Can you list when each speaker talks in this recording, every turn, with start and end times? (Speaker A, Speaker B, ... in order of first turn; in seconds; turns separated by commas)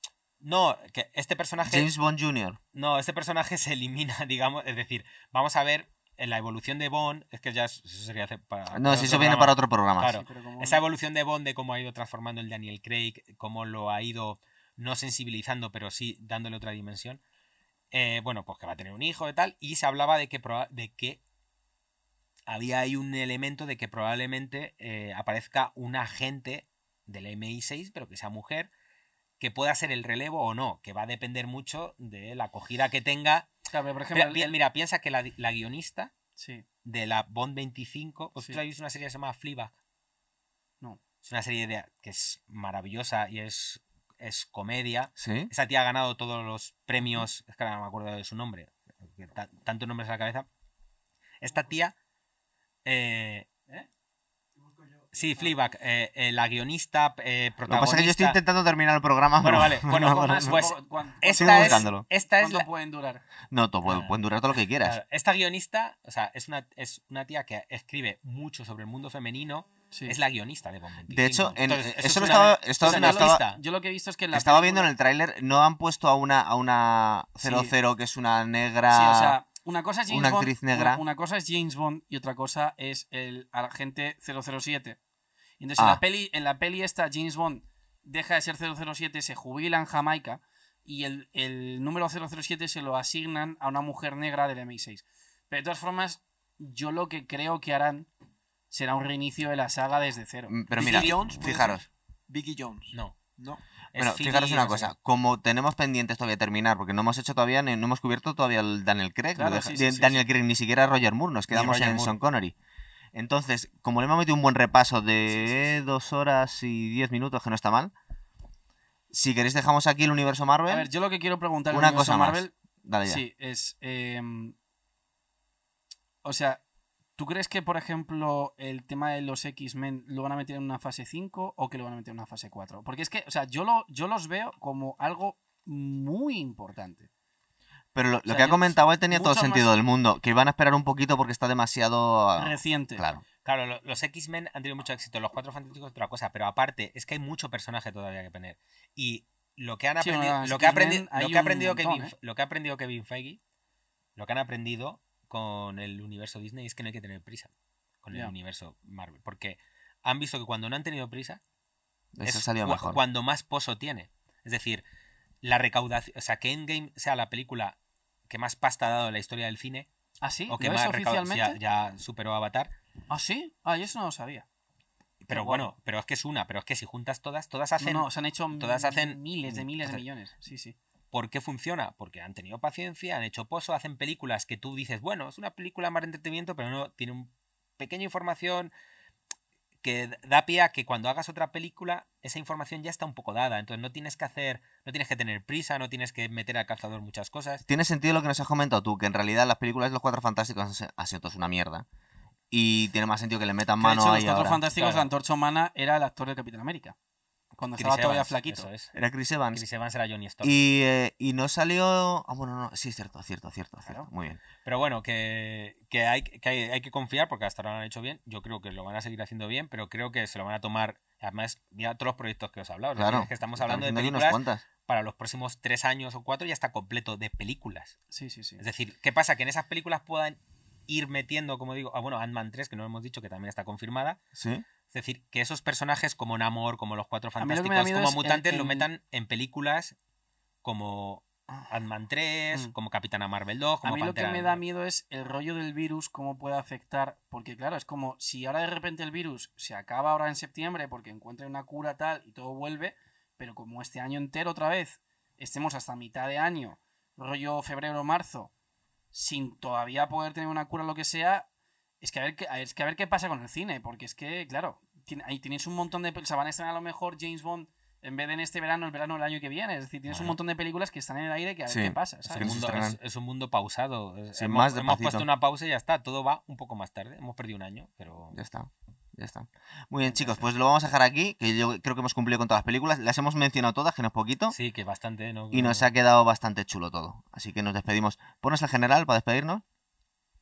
Speaker A: 0.4-1.9, Speaker B: 1.6-2.6, Speaker A: 2.7-17.2, Speaker B: 8.7-10.2, Speaker C: 10.1-10.8, Speaker A: 17.9-21.2, Speaker A: 22.5-28.7, Speaker A: 29.4-33.5, Speaker C: 33.7-34.5, Speaker A: 34.1-36.1, Speaker C: 36.4-36.6, Speaker A: 36.9-39.7, Speaker A: 41.2-50.5, Speaker B: 45.2-45.5, Speaker C: 47.0-47.2, Speaker A: 51.4-51.9, Speaker A: 52.9-53.5, Speaker A: 55.1-58.4, Speaker B: 57.7-60.6, Speaker A: 59.4-62.6, Speaker C: 60.3-63.2, Speaker B: 61.4-62.0, Speaker B: 63.5-65.0, Speaker A: 63.9-64.1, Speaker A: 64.8-73.6, Speaker C: 69.9-70.2, Speaker B: 71.1-73.4, Speaker C: 72.8-74.9, Speaker B: 74.3-79.4, Speaker C: 77.4-77.7, Speaker C: 78.9-85.0, Speaker B: 80.1-81.0, Speaker C: 85.6-98.1, Speaker C: 98.7-101.2, Speaker B: 100.5-101.8, Speaker D: 100.8-103.6, Speaker A: 102.9-103.2, Speaker A: 103.9-104.9, Speaker B: 104.0-112.5, Speaker C: 109.4-110.2, Speaker A: 111.5-112.1, Speaker B: 113.1-117.9, Speaker C: 115.3-115.8, Speaker B: 119.1-120.9, Speaker C: 120.7-122.5, Speaker B: 121.7-123.2, Speaker C: 123.0-124.5, Speaker C: 126.2-126.6, Speaker C: 127.2-137.1, Speaker B: 137.9-143.2, Speaker C: 138.3-139.7, Speaker C: 142.4-143.1, Speaker A: 143.4-153.4, Speaker C: 150.0-152.1, Speaker A: 154.2-157.5, Speaker A: 158.0-161.4, Speaker B: 162.2-163.0, Speaker A: 162.2-164.8, Speaker A: 165.4-167.8, Speaker A: 168.3-169.9, Speaker C: 170.2-171.6, Speaker A: 170.5-172.7, Speaker C: 173.1-174.4, Speaker A: 175.2-180.0, Speaker C: 175.3-175.7, Speaker C: 177.8-180.8, Speaker A: 181.1-188.7, Speaker A: 189.8-197.6, Speaker B: 197.7-201.8, Speaker B: 202.5-204.6, Speaker C: 203.8-206.9, Speaker A: 204.7-205.1, Speaker C: 207.6-208.7, Speaker A: 207.8-208.9, Speaker B: 208.9-209.6, Speaker A: 209.5-210.7, Speaker B: 210.4-214.4, Speaker A: 214.6-227.9, Speaker B: 222.9-224.6, Speaker C: 228.1-228.6, Speaker A: 228.6-234.2, Speaker B: 234.4-234.7, Speaker A: 234.9-239.9, Speaker C: 237.4-238.9, Speaker A: 240.6-244.6, Speaker C: 243.8-258.5, Speaker C: 259.1-261.5, Speaker C: 262.0-272.6, Speaker A: 270.1-270.3, Speaker B: 271.7-273.0, Speaker A: 272.3-278.4, Speaker B: 274.4-275.2, Speaker B: 278.3-284.6, Speaker C: 280.0-280.4, Speaker A: 284.5-285.9, Speaker B: 285.5-289.6